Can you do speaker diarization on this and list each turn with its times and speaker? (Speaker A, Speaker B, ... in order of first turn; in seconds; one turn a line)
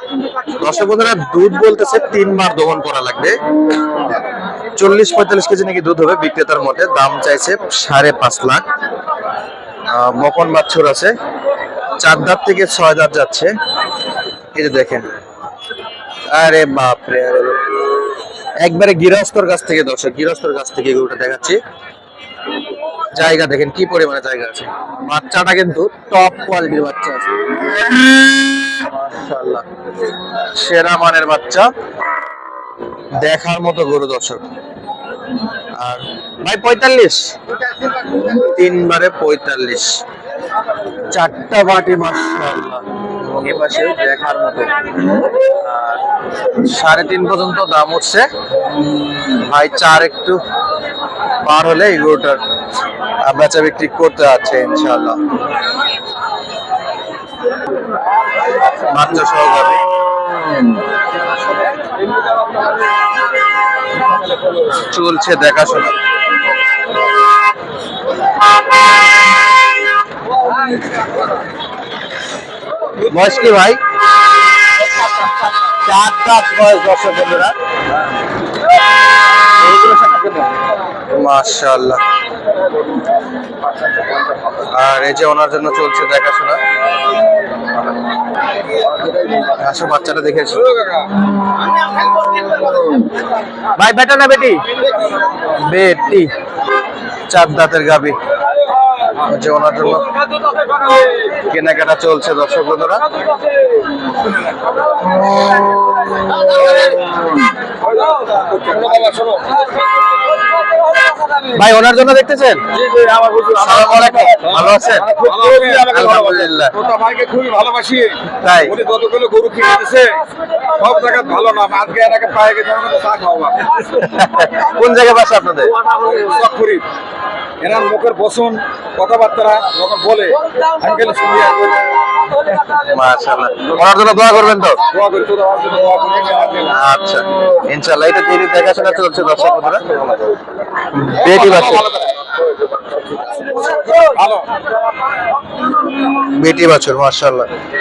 Speaker A: 0.6-3.4
Speaker A: 4.7-8.6
Speaker A: 9.9-11.1
Speaker A: 12.0-13.5
Speaker A: 14.5-15.1
Speaker A: 16.3-17.6
Speaker A: 18.6-21.6
Speaker A: 23.1-27.3
Speaker A: 28.7-29.6
Speaker A: 30.4-31.7
Speaker A: 33.2-34.4
Speaker A: 35.7-37.3
Speaker A: 38.4-40.0
Speaker A: 41.1-44.7
Speaker A: 45.5-46.0
Speaker A: 46.5-48.2
Speaker A: 49.3-50.4
Speaker A: 51.4-52.4
Speaker A: 53.2-55.2
Speaker A: 58.7-59.8
Speaker A: 64.8-66.0
Speaker A: 73.0-73.8
Speaker A: 75.7-77.5
Speaker B: 79.7-80.4
Speaker A: 81.1-82.0
Speaker A: 84.7-86.6
Speaker A: 89.5-90.7
Speaker B: 90.7-91.1
Speaker A: 93.8-94.6
Speaker A: 95.7-96.3
Speaker A: 97.3-98.2
Speaker A: 99.2-100.1
Speaker B: 100.6-101.1
Speaker A: 101.4-103.0
Speaker B: 107.8-109.7
Speaker A: 111.5-112.6
Speaker B: 112.8-123.8
Speaker A: 113.6-116.7
Speaker A: 118.4-118.7
Speaker A: 123.9-125.8
Speaker B: 125.8-126.8
Speaker B: 127.6-132.2
Speaker A: 132.8-134.8
Speaker B: 134.9-136.7
Speaker A: 136.7-139.8
Speaker A: 140.9-141.8
Speaker B: 141.2-142.1
Speaker B: 143.7-144.5
Speaker A: 146.2-147.4